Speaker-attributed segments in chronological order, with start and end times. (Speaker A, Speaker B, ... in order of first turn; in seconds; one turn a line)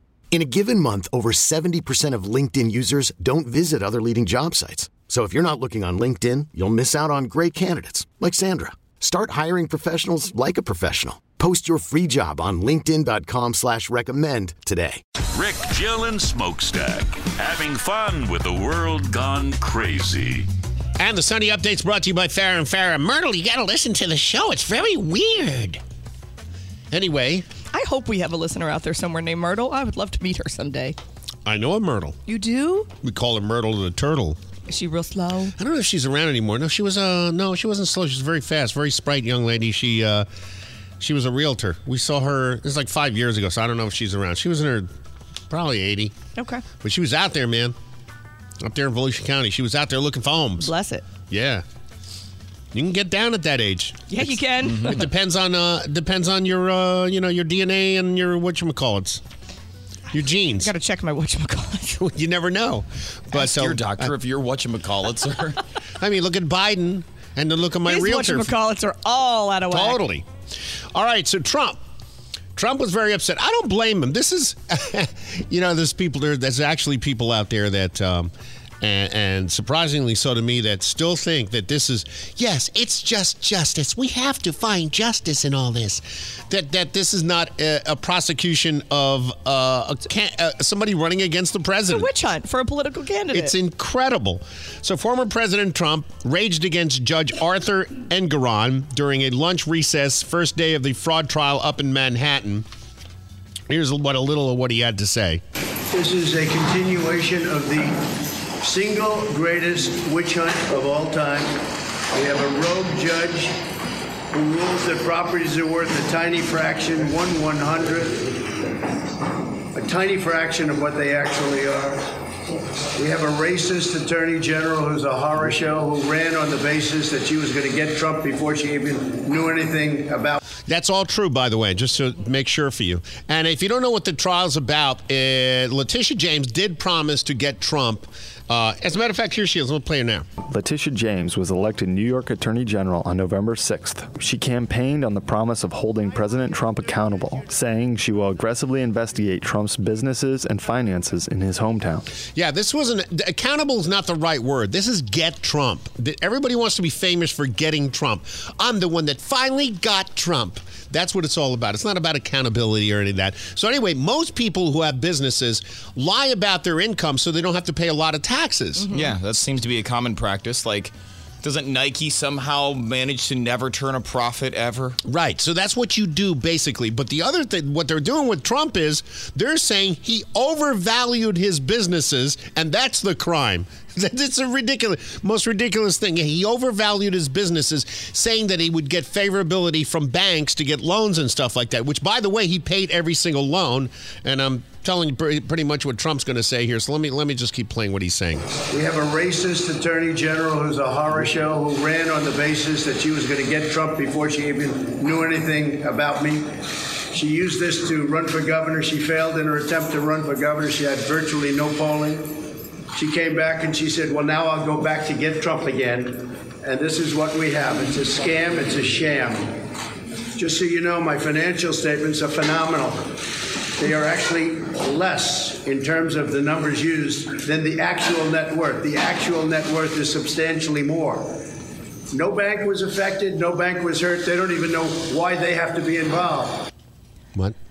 Speaker A: 0.3-15.0
Speaker B: 15.3-20.4
Speaker C: 21.0-25.8
Speaker C: 26.9-27.4
Speaker D: 27.7-30.9
Speaker C: 31.4-32.2
Speaker D: 32.3-32.9
Speaker C: 33.0-34.4
Speaker D: 34.7-35.5
Speaker C: 35.6-40.3
Speaker C: 41.0-44.9
Speaker C: 45.5-46.1
Speaker D: 46.4-46.6
Speaker C: 46.8-47.8
Speaker C: 48.6-50.7
Speaker D: 50.6-51.1
Speaker C: 51.3-51.6
Speaker C: 52.7-59.2
Speaker D: 54.1-55.0
Speaker E: 54.6-55.0
Speaker C: 60.1-60.7
Speaker D: 60.6-62.0
Speaker C: 62.0-64.1
Speaker E: 63.3-65.6
Speaker C: 66.0-68.5
Speaker D: 67.9-70.0
Speaker C: 69.7-70.3
Speaker C: 70.9-71.8
Speaker C: 72.5-92.1
Speaker D: 91.9-93.5
Speaker C: 93.3-102.7
Speaker C: 103.7-105.4
Speaker F: 105.9-111.6
Speaker F: 112.1-113.6
Speaker F: 114.3-118.3
Speaker F: 119.7-122.0
Speaker F: 123.0-130.4
Speaker C: 130.7-140.3
Speaker G: 140.5-152.1
Speaker C: 152.3-168.9
Speaker D: 168.8-169.1
Speaker E: 168.9-175.0
Speaker C: 175.0-198.4
Speaker F: 198.7-219.6
Speaker F: 220.3-223.2
Speaker F: 223.8-231.5
Speaker F: 232.1-236.7